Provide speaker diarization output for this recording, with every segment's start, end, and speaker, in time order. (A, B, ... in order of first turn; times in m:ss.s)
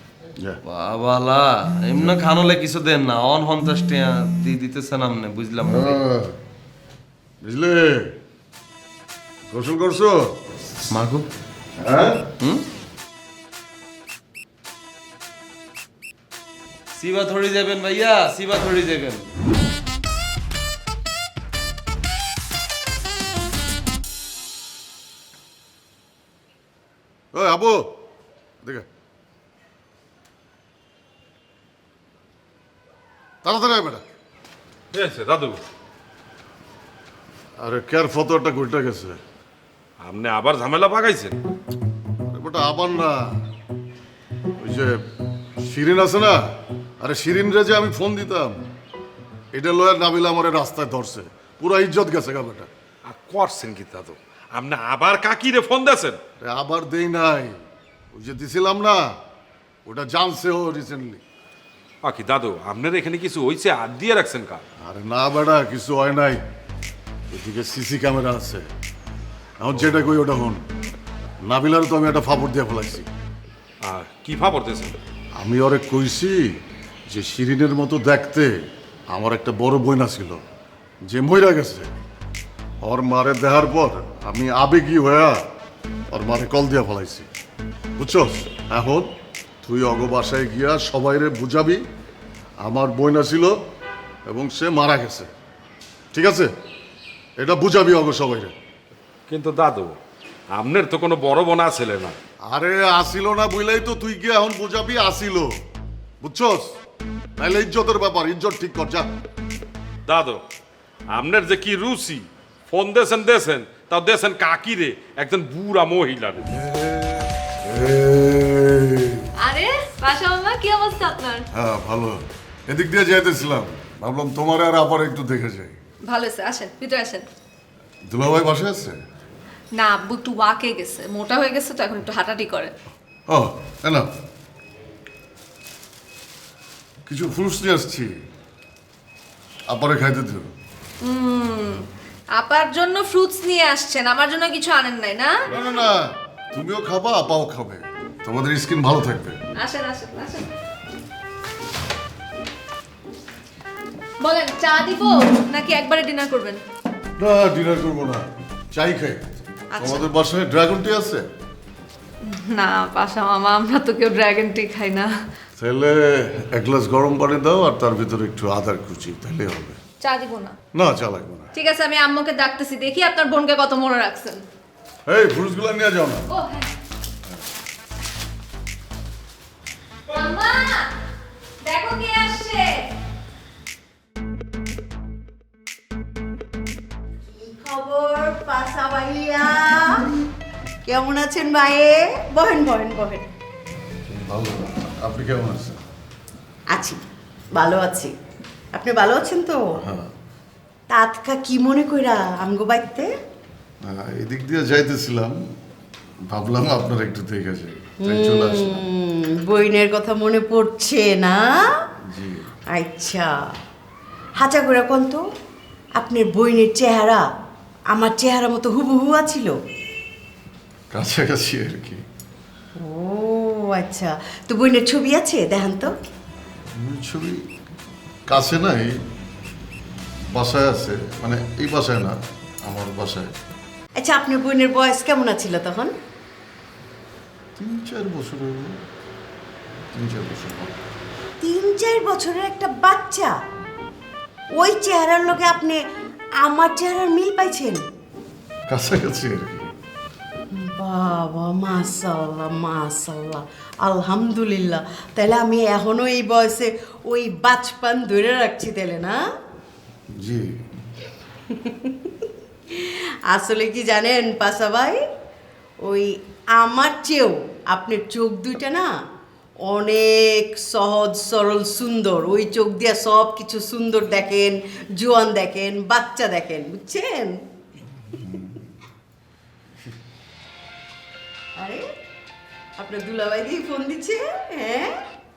0:00.7-0:06.0 A
0:05.7-0:06.3 B
0:07.4-0:08.1 B
0:09.5-0:10.3 B
0:10.9-0:11.2 A
0:11.8-0:12.2 B
0:16.9-0:19.3 A
0:27.3-0:27.9 B
0:33.4-0:34.0 B
0:34.9-0:35.6 C
0:37.6-0:39.2 B
0:40.0-0:41.4 C
0:42.3-0:43.4 B
0:44.6-0:45.0 B
0:45.6-0:46.4 B
0:47.0-0:48.6 B
0:49.5-0:52.7 B
0:53.0-0:56.2 C
0:56.4-0:57.6 B
0:58.1-0:59.2 B
0:59.8-1:01.2 B
1:02.0-1:04.6 C
1:04.8-1:06.4 B
1:07.3-1:08.7 B
1:09.6-1:10.6 B
1:11.4-1:13.1 B
1:13.8-1:15.0 C
1:15.3-1:16.5 B
1:17.1-1:20.4 B
1:21.0-1:21.9 B
1:22.8-1:25.4 B
1:26.1-1:27.3 B
1:28.0-1:29.1 B
1:29.6-1:31.8 B
1:32.6-1:33.6 B
1:34.3-1:35.3 B
1:36.1-1:36.5 B
1:37.4-1:38.5 B
1:39.3-1:40.0 C
1:40.5-1:42.2 C
1:42.5-1:45.6 B
1:46.2-1:46.8 B
1:47.4-1:49.1 B
1:50.0-1:50.4 C
1:51.1-1:56.6 C
1:56.6-1:59.3 B
1:59.4-2:01.4 D
2:01.5-2:05.8 B
2:06.1-2:07.2 D
2:08.0-2:09.0 B
2:09.8-2:12.7 D
2:13.3-2:14.1 B
2:17.0-2:18.2 B
2:19.7-2:20.5 B
2:21.0-2:21.8 D
2:22.4-2:25.3 D
2:25.5-2:29.4 B
2:29.6-2:30.5 D
2:34.2-2:36.6 D
2:37.2-2:39.2 B
2:39.8-2:40.0 D
2:39.8-2:41.3 B
2:42.3-2:45.1 D
2:45.6-2:49.8 B
2:50.0-2:50.5 D
2:50.7-2:51.5 B
2:51.5-2:54.4 D
2:55.0-2:56.2 B
2:56.3-2:56.7 D
3:00.1-3:00.8 D
3:01.6-3:02.8 D
3:07.4-3:10.0 E
3:10.8-3:13.2 E
3:14.1-3:15.8 B
3:16.7-3:17.0 E
3:17.5-3:18.1 E
3:18.7-3:19.6 E
3:19.8-3:20.1 B
3:20.9-3:23.1 E
3:23.8-3:25.4 B
3:26.3-3:28.8 B
3:28.0-3:31.3 E
3:32.1-3:32.5 B
3:32.7-3:33.3 E
3:34.4-3:35.2 E
3:36.0-3:37.2 E
3:37.9-3:39.5 E
3:40.9-3:42.0 B
3:42.8-3:45.9 E
3:46.8-3:47.4 B
3:48.3-3:49.0 B
3:50.3-3:53.3 B
3:54.0-3:55.9 E
3:57.6-3:58.8 B
3:59.9-4:00.8 B
4:01.4-4:03.3 E
4:04.6-4:05.8 E
4:06.4-4:07.8 E
4:08.7-4:09.7 B
4:10.5-4:19.2 E
4:20.2-4:20.6 B
4:21.6-4:21.9 E
4:22.7-4:25.0 E
4:25.8-4:28.9 E
4:29.6-4:37.3 E
4:42.8-4:44.9 E